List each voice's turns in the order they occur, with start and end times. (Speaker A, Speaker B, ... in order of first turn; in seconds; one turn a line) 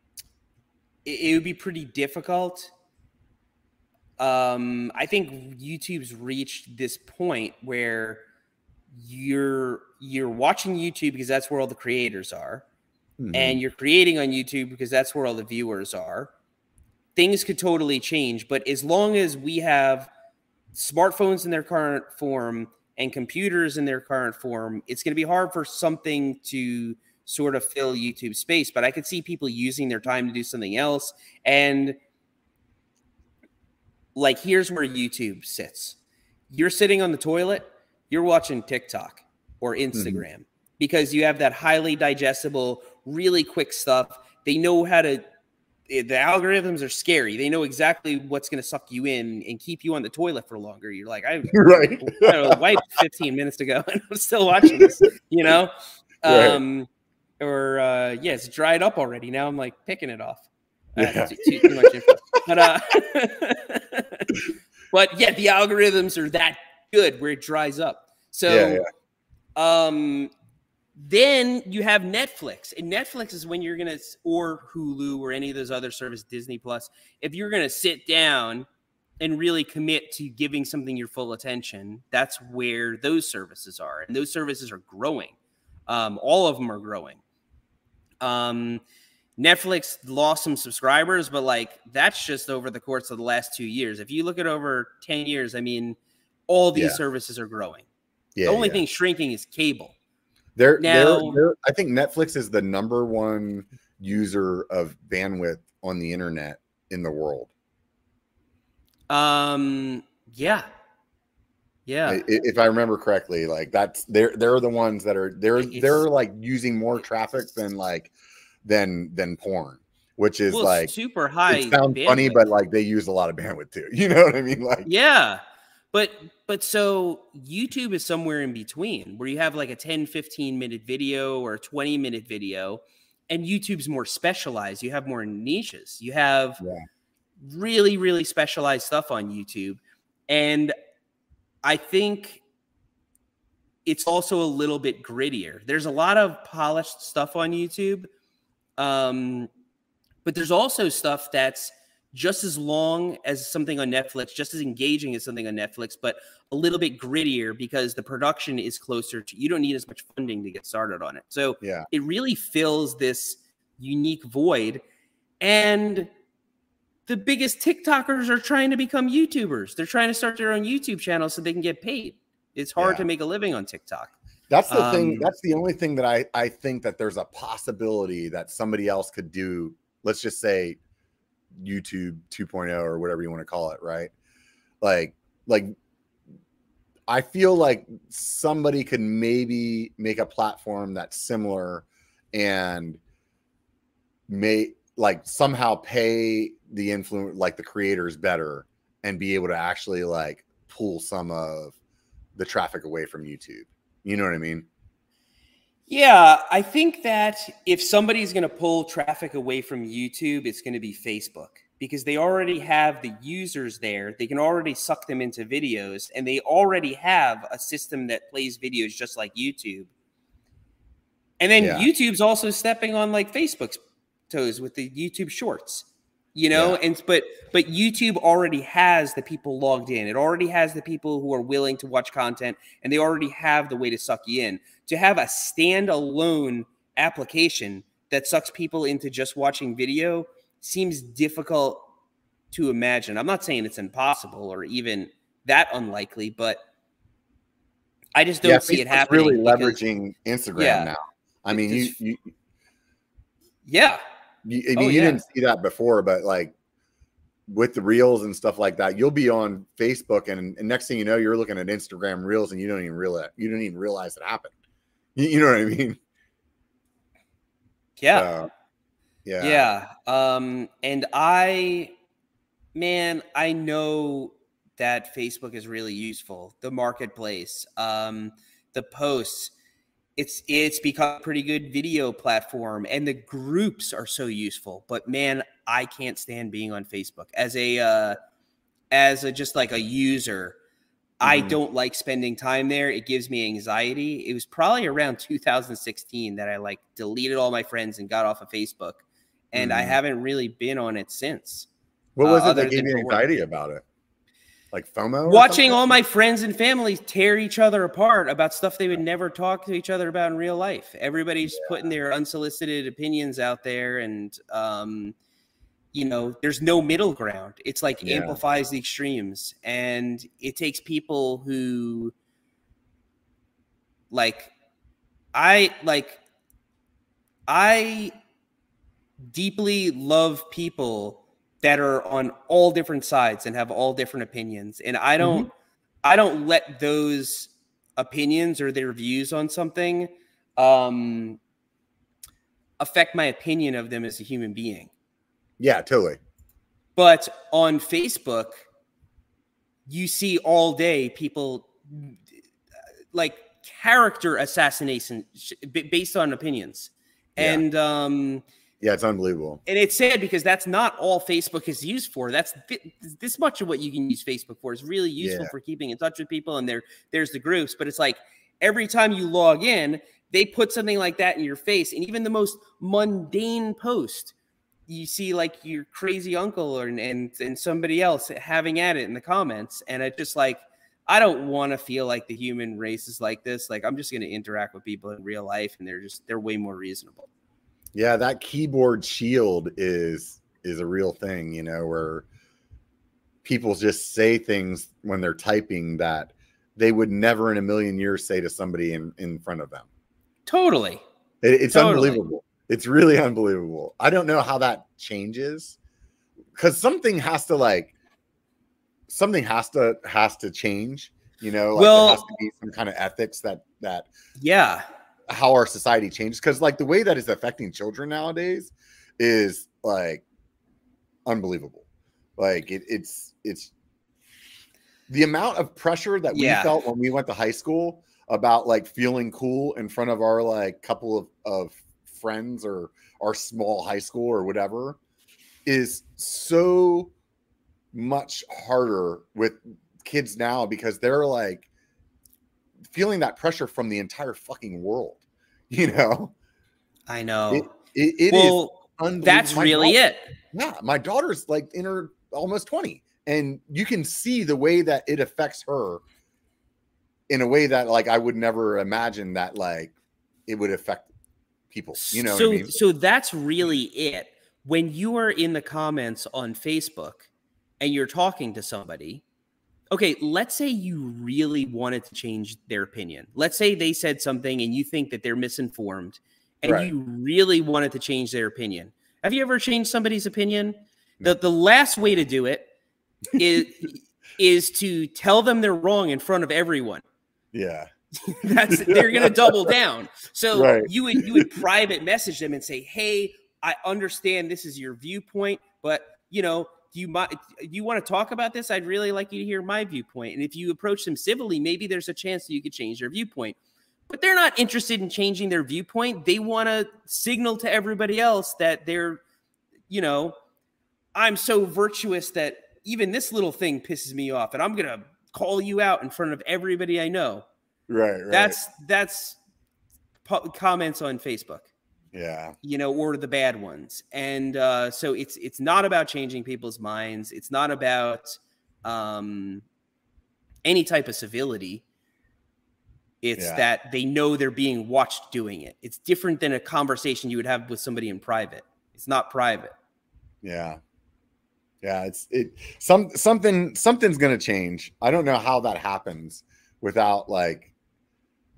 Speaker A: 1.1-2.7
Speaker A: 4.2-8.2
Speaker A: 8.9-12.6
Speaker B: 13.2-13.6
Speaker A: 13.3-16.3
Speaker A: 17.2-20.1
Speaker A: 20.7-32.0
Speaker A: 34.1-36.0
Speaker A: 36.5-45.2
Speaker B: 39.9-40.2
Speaker A: 45.9-55.7
Speaker B: 51.5-52.6
Speaker B: 54.7-55.0
Speaker A: 56.2-56.9
Speaker B: 56.3-56.6
Speaker A: 57.4-64.3
Speaker B: 61.0-62.5
Speaker A: 64.9-68.8
Speaker B: 68.5-68.9
Speaker A: 69.6-70.3
Speaker A: 71.0-78.7
Speaker A: 79.2-85.3
Speaker A: 85.9-87.2
Speaker A: 88.2-88.8
Speaker A: 89.4-96.0
Speaker A: 96.5-97.9
Speaker B: 96.8-97.0
Speaker B: 98.4-98.8
Speaker A: 98.5-99.9
Speaker B: 100.6-107.5
Speaker A: 100.8-101.4
Speaker A: 109.1-110.7
Speaker A: 111.9-112.2
Speaker B: 112.1-118.1
Speaker A: 115.6-116.0
Speaker B: 118.6-120.9
Speaker A: 120.5-122.5
Speaker B: 121.5-124.9
Speaker A: 124.8-125.4
Speaker A: 125.9-136.6
Speaker A: 137.4-140.8
Speaker A: 141.6-142.4
Speaker A: 143.8-148.1
Speaker A: 148.8-149.5
Speaker A: 150.2-164.8
Speaker B: 161.6-161.9
Speaker A: 165.4-166.1
Speaker A: 167.1-174.1
Speaker B: 172.8-173.1
Speaker B: 174.5-180.8
Speaker A: 174.7-175.3
Speaker B: 181.6-184.1
Speaker B: 184.8-185.7
Speaker B: 187.1-193.0
Speaker B: 194.3-201.8
Speaker B: 202.4-204.7
Speaker A: 205.9-219.9
Speaker A: 221.4-241.9
Speaker B: 221.6-221.9
Speaker B: 226.5-226.8
Speaker A: 242.5-246.6
Speaker A: 248.2-249.8
Speaker B: 248.4-252.3
Speaker A: 250.6-250.9
Speaker A: 251.5-252.0
Speaker A: 253.7-254.0
Speaker B: 254.4-256.5
Speaker A: 254.8-255.2
Speaker B: 257.5-264.5
Speaker B: 265.2-266.0
Speaker A: 268.0-268.3
Speaker B: 268.1-268.5
Speaker B: 269.2-269.7
Speaker A: 269.4-271.9
Speaker A: 272.7-279.5
Speaker A: 280.2-288.2
Speaker A: 288.9-290.6
Speaker A: 291.2-301.7
Speaker B: 291.2-291.6
Speaker B: 299.6-300.0
Speaker B: 302.2-303.8
Speaker A: 302.2-303.2
Speaker B: 304.7-306.0
Speaker A: 305.3-315.1
Speaker B: 311.5-311.7
Speaker A: 315.9-322.1
Speaker B: 318.0-318.4
Speaker A: 324.1-324.5
Speaker A: 325.3-326.2
Speaker A: 327.5-328.1
Speaker A: 329.2-335.5
Speaker B: 335.2-335.5
Speaker A: 336.0-341.4
Speaker A: 342.8-344.9
Speaker B: 345.6-346.2
Speaker A: 347.0-348.6
Speaker A: 349.9-352.2
Speaker A: 353.1-358.4
Speaker B: 357.4-357.6
Speaker B: 358.8-359.6
Speaker A: 359.7-374.3
Speaker B: 365.2-365.5
Speaker A: 374.9-387.3
Speaker B: 387.9-392.3
Speaker B: 393.4-399.9
Speaker A: 400.5-401.0
Speaker B: 401.4-405.8
Speaker A: 401.7-402.2
Speaker B: 406.6-407.9
Speaker B: 409.1-414.1
Speaker A: 411.8-412.2
Speaker A: 414.4-414.8
Speaker B: 415.3-420.2
Speaker B: 421.3-421.9
Speaker B: 422.4-423.7
Speaker B: 425.1-435.0
Speaker A: 426.3-426.8
Speaker B: 435.7-437.1
Speaker B: 437.9-441.7
Speaker B: 442.9-446.3
Speaker A: 447.1-447.7
Speaker B: 447.5-450.0
Speaker A: 448.3-450.2
Speaker B: 450.5-456.0
Speaker B: 457.3-459.9
Speaker B: 460.5-461.1
Speaker B: 461.7-462.8
Speaker A: 462.0-467.3
Speaker A: 467.8-469.2
Speaker A: 469.9-482.7
Speaker B: 476.6-476.9
Speaker A: 483.4-487.0
Speaker B: 487.5-487.9
Speaker A: 488.2-503.6
Speaker B: 488.7-489.7
Speaker B: 490.5-491.5
Speaker A: 504.1-509.2
Speaker A: 509.9-510.4
Speaker A: 511.1-517.5
Speaker B: 517.9-518.6
Speaker A: 518.3-519.4
Speaker A: 520.2-521.7
Speaker B: 522.1-522.5
Speaker A: 522.6-529.6
Speaker A: 530.6-531.8
Speaker A: 533.2-539.7
Speaker B: 533.4-533.6
Speaker B: 540.4-540.8
Speaker B: 541.8-547.7